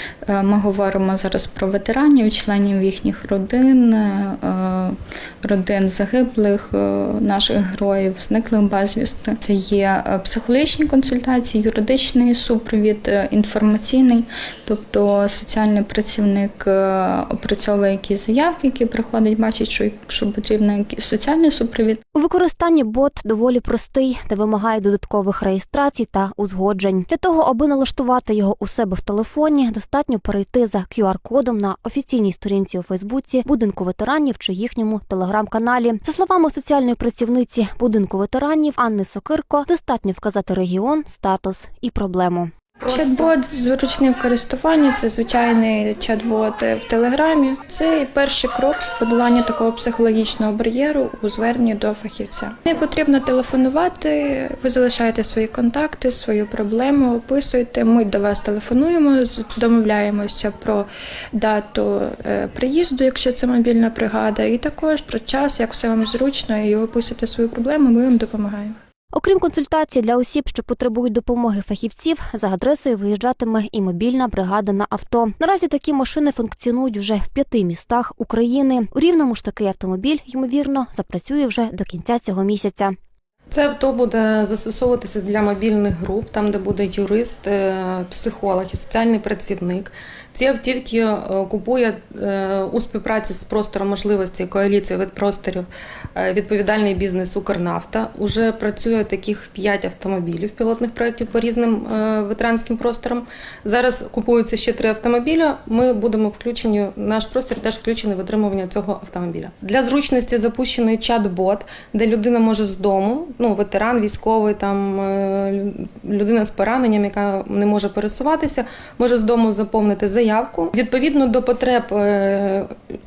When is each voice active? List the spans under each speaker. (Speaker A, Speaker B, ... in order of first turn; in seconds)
Speaker A: 0.2-22.0
Speaker B: 22.1-42.5, 69.1-82.9
Speaker C: 42.8-68.8
Speaker D: 42.9-43.3, 83.5-122.7